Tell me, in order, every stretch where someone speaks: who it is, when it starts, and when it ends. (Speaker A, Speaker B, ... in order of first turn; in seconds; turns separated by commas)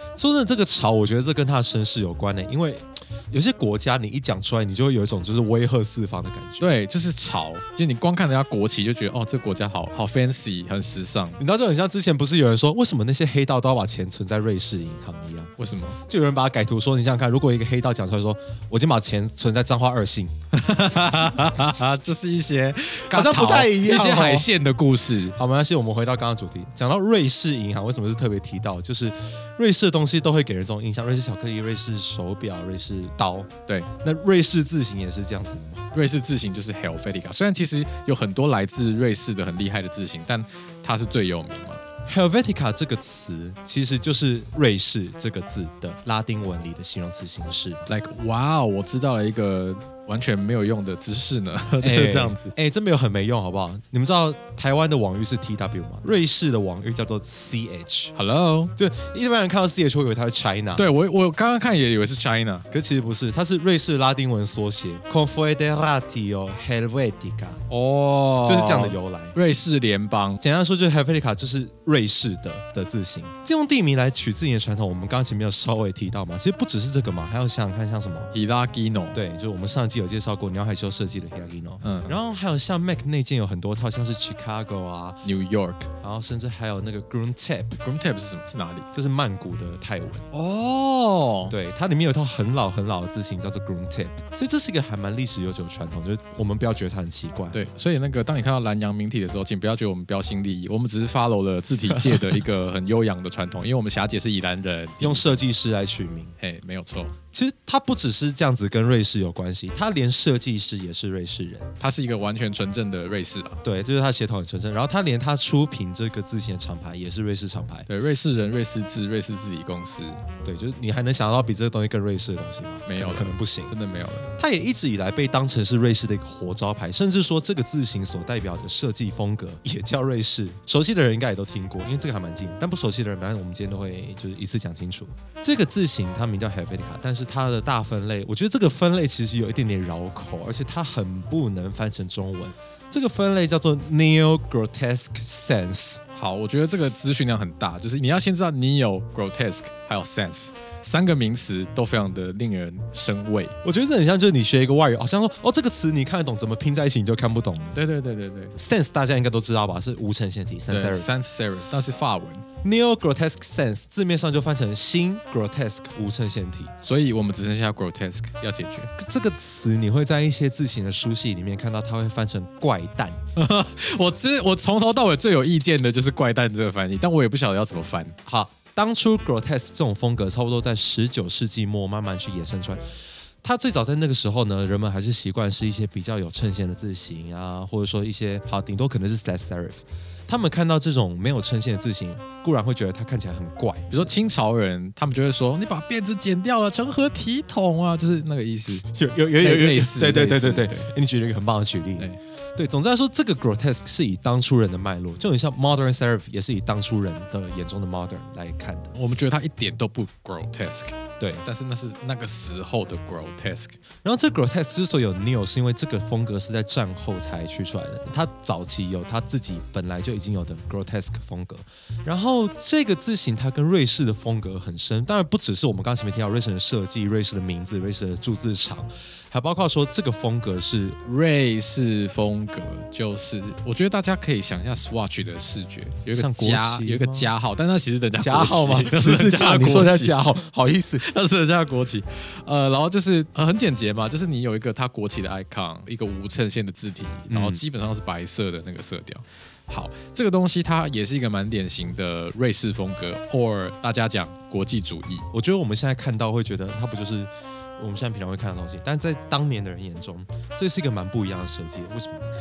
Speaker A: 0.2-6.7, Speaker B: 6.6-11.4, Speaker A: 11.4-15.5, Speaker B: 15.6-16.0, Speaker A: 16.1-20.3, Speaker B: 20.5-25.4, Speaker A: 23.1-24.5, Speaker A: 25.4-33.5, Speaker A: 34.0-35.9, Speaker B: 35.9-41.8, Speaker A: 42.1-47.8, Speaker B: 47.9-52.5, Speaker A: 51.8-58.1, Speaker B: 58.1-58.7, Speaker A: 58.8-60.9, Speaker B: 60.8-62.7, Speaker A: 62.7-67.6, Speaker B: 67.7-70.4, Speaker A: 68.5-69.4, Speaker A: 70.4-78.3, Speaker B: 78.3-79.2, Speaker A: 79.1-85.2, Speaker B: 81.8-82.2, Speaker B: 85.2-85.9, Speaker A: 86.0-87.8, Speaker B: 87.8-88.9, Speaker A: 88.9-90.3, Speaker B: 90.3-91.5, Speaker A: 91.5-97.6, Speaker B: 97.5-105.4, Speaker A: 101.9-102.4, Speaker A: 105.0-106.3, Speaker B: 106.4-107.2, Speaker A: 107.3-111.7, Speaker B: 111.8-113.6, Speaker A: 113.6-117.9, Speaker B: 117.9-120.2, Speaker A: 120.4-123.7, Speaker B: 122.9-124.3, Speaker A: 124.4-146.0, Speaker B: 146.1-153.6, Speaker A: 153.6-157.8, Speaker B: 157.8-158.6, Speaker A: 158.6-161.1, Speaker B: 160.7-162.4, Speaker A: 162.6-166.7, Speaker B: 166.8-168.9, Speaker A: 169.0-173.2, Speaker B: 173.4-178.2, Speaker A: 178.2-182.8, Speaker A: 183.4-194.1, Speaker B: 193.9-198.9, Speaker A: 198.8-208.9, Speaker B: 199.4-200.9, Speaker B: 208.9-213.8, Speaker A: 214.0-231.0, Speaker B: 231.1-240.2, Speaker A: 236.1-237.3, Speaker A: 238.2-241.1, Speaker B: 241.0-255.3, Speaker A: 247.3-247.6, Speaker A: 255.3-262.3